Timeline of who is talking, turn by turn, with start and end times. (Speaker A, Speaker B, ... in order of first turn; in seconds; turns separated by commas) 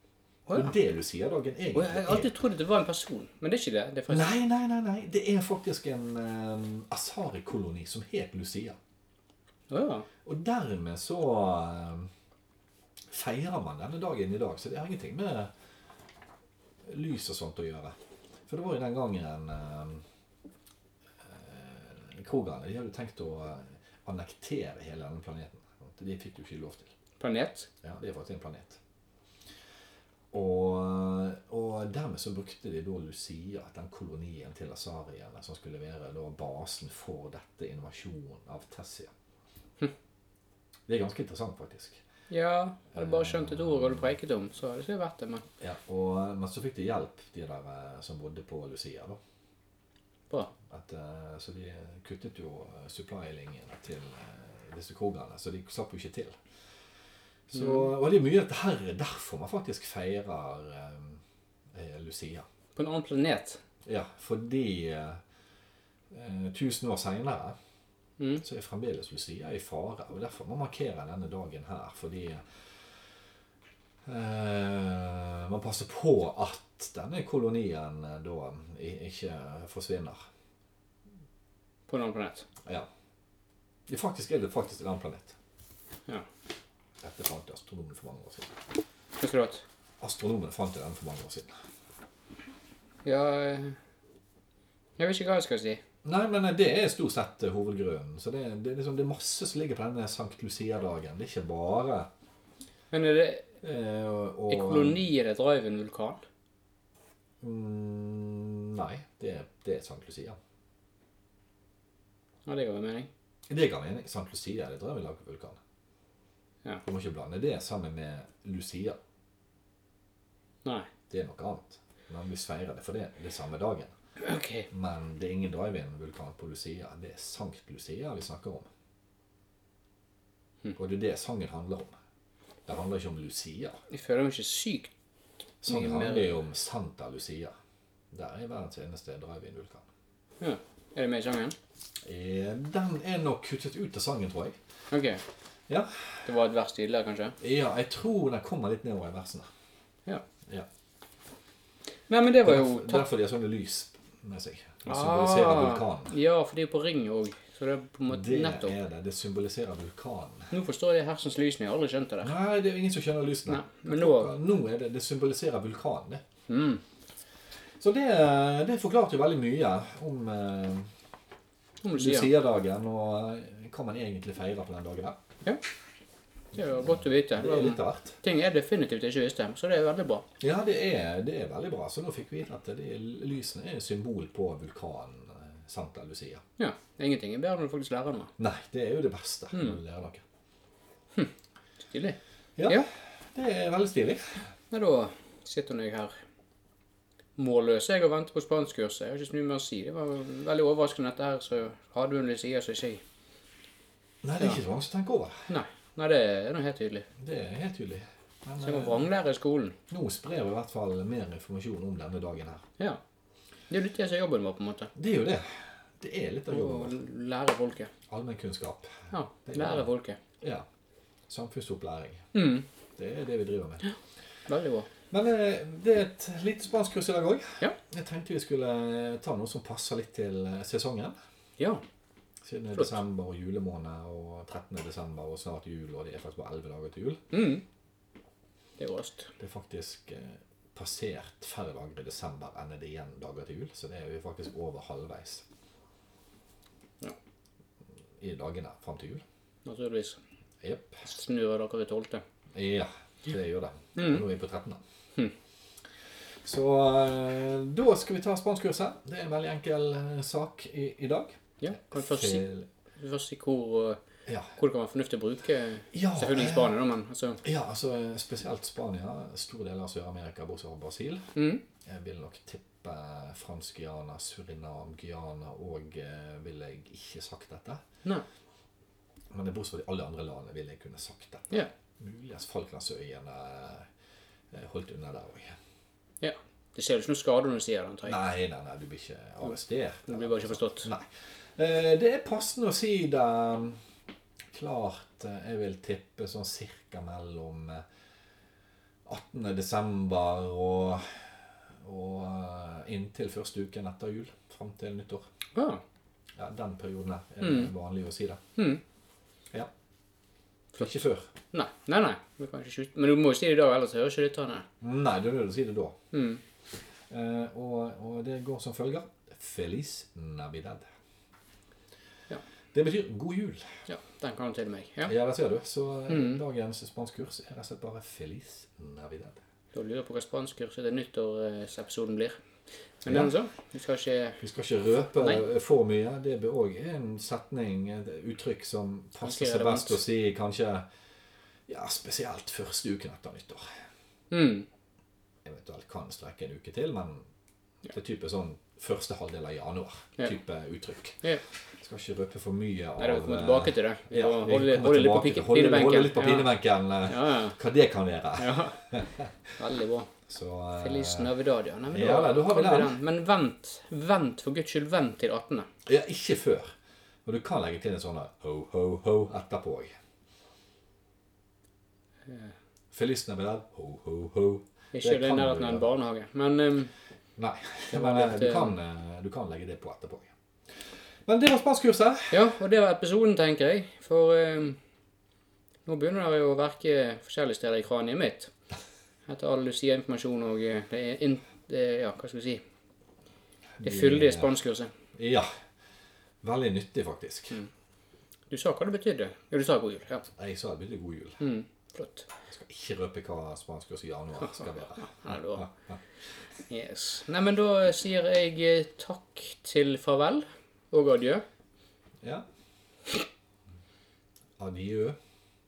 Speaker A: 0.5-0.7, Speaker B: 0.5-2.3, Speaker A: 1.7-4.4, Speaker B: 4.1-8.8, Speaker A: 9.7-10.1, Speaker B: 10.2-12.1, Speaker B: 13.1-15.5, Speaker B: 16.8-17.9, Speaker B: 18.5-20.0, Speaker B: 21.2-26.9, Speaker A: 27.2-27.7, Speaker B: 27.8-28.8, Speaker B: 30.3-39.1, Speaker B: 40.9-42.0, Speaker A: 42.3-45.5, Speaker B: 43.0-44.0, Speaker B: 45.6-49.2, Speaker B: 50.7-56.4, Speaker B: 57.5-61.2, Speaker A: 57.5-57.9, Speaker B: 61.7-62.5, Speaker A: 62.8-63.6, Speaker B: 63.9-65.2, Speaker B: 66.1-67.5, Speaker B: 68.4-72.4, Speaker B: 74.0-80.2, Speaker A: 81.9-82.5, Speaker B: 83.9-85.3, Speaker B: 87.0-88.6, Speaker A: 89.2-89.6, Speaker B: 90.0-91.6, Speaker A: 93.0-93.8, Speaker A: 95.0-95.8, Speaker B: 96.0-102.1, Speaker A: 102.9-103.5, Speaker B: 103.6-105.0, Speaker A: 104.5-106.2, Speaker B: 107.4-110.4, Speaker A: 112.5-113.1, Speaker B: 113.5-115.6, Speaker B: 116.8-119.0, Speaker A: 120.6-120.9, Speaker B: 121.1-123.9, Speaker A: 124.2-124.7, Speaker B: 124.7-128.7, Speaker B: 130.8-131.9, Speaker B: 132.7-133.8, Speaker A: 133.9-134.9, Speaker B: 135.6-137.5, Speaker A: 135.7-136.3, Speaker B: 138.1-139.8, Speaker A: 140.4-141.6, Speaker B: 142.0-144.6, Speaker A: 144.9-145.2, Speaker B: 145.7-146.0, Speaker A: 146.2-147.4, Speaker B: 147.4-149.5, Speaker A: 152.1-153.1, Speaker B: 152.4-156.1, Speaker A: 154.8-158.8, Speaker B: 158.1-160.5, Speaker A: 160.5-162.3, Speaker B: 162.2-166.2, Speaker A: 163.5-164.3, Speaker A: 166.5-166.8, Speaker B: 167.8-170.9, Speaker A: 171.8-172.3, Speaker B: 172.0-175.2, Speaker A: 176.5-180.3, Speaker B: 176.7-178.2, Speaker B: 180.4-186.4, Speaker A: 186.6-188.3, Speaker B: 188.4-190.2, Speaker A: 189.5-189.8, Speaker A: 191.9-192.9, Speaker B: 192.6-194.4, Speaker A: 194.7-196.1, Speaker A: 197.4-203.0, Speaker B: 204.2-205.5, Speaker A: 205.5-207.1, Speaker B: 207.2-209.0, Speaker A: 208.6-209.8, Speaker B: 209.9-212.6, Speaker A: 213.7-214.9, Speaker B: 214.9-217.0, Speaker A: 216.5-217.9, Speaker B: 218.1-219.8, Speaker A: 219.1-220.2, Speaker B: 220.4-220.7, Speaker B: 221.3-222.3, Speaker A: 222.3-222.7, Speaker B: 223.0-223.8, Speaker A: 224.5-224.9, Speaker B: 225.1-231.2, Speaker A: 231.6-231.8, Speaker B: 232.4-237.2, Speaker A: 237.3-237.6, Speaker A: 238.8-239.3, Speaker B: 239.4-245.4, Speaker B: 248.2-249.2, Speaker A: 249.6-250.2, Speaker B: 250.6-251.0, Speaker A: 251.0-252.2, Speaker B: 252.5-254.8, Speaker A: 253.9-254.2, Speaker B: 256.4-262.6, Speaker A: 261.6-262.4, Speaker A: 263.0-264.0, Speaker B: 264.2-264.5, Speaker A: 264.6-267.4, Speaker B: 265.9-266.7, Speaker B: 267.4-271.3, Speaker A: 271.4-271.6, Speaker B: 271.8-277.8, Speaker B: 279.3-283.9, Speaker B: 284.5-285.6, Speaker A: 286.2-288.2, Speaker B: 288.1-293.8, Speaker A: 290.1-290.9, Speaker B: 294.5-297.8, Speaker B: 299.1-305.2, Speaker A: 305.5-305.8, Speaker B: 306.4-308.4, Speaker A: 307.4-307.7, Speaker A: 308.6-308.8, Speaker B: 310.8-311.3, Speaker A: 311.5-314.7, Speaker B: 314.8-316.0, Speaker A: 316.1-316.4, Speaker B: 317.1-320.8, Speaker B: 322.7-323.6, Speaker A: 323.9-325.1, Speaker B: 325.1-329.4, Speaker A: 326.1-326.4, Speaker A: 329.7-332.4, Speaker A: 333.0-334.4, Speaker B: 333.1-333.3, Speaker B: 334.4-340.9, Speaker A: 335.0-335.4, Speaker A: 339.2-340.0, Speaker B: 341.7-343.7, Speaker A: 344.3-344.7, Speaker B: 345.4-347.2, Speaker B: 347.9-351.2, Speaker B: 351.8-359.3, Speaker A: 353.0-356.5, Speaker A: 357.1-357.6, Speaker A: 358.4-358.9, Speaker A: 359.5-360.1, Speaker B: 360.3-361.3, Speaker A: 360.8-365.7, Speaker B: 361.9-362.9, Speaker B: 365.9-366.7, Speaker B: 367.2-369.9, Speaker B: 372.9-375.9, Speaker A: 374.9-376.9, Speaker B: 377.4-380.3, Speaker A: 377.9-378.8, Speaker B: 381.2-382.4, Speaker A: 382.3-384.8, Speaker A: 385.9-388.5, Speaker A: 389.3-392.6, Speaker B: 393.8-394.5, Speaker A: 393.8-394.9, Speaker B: 395.1-395.5, Speaker B: 396.4-397.6, Speaker A: 398.5-400.2, Speaker B: 400.3-401.4, Speaker A: 401.4-402.3, Speaker B: 402.5-406.0, Speaker A: 404.4-405.7, Speaker A: 406.7-411.4, Speaker B: 412.2-412.4, Speaker B: 414.6-415.2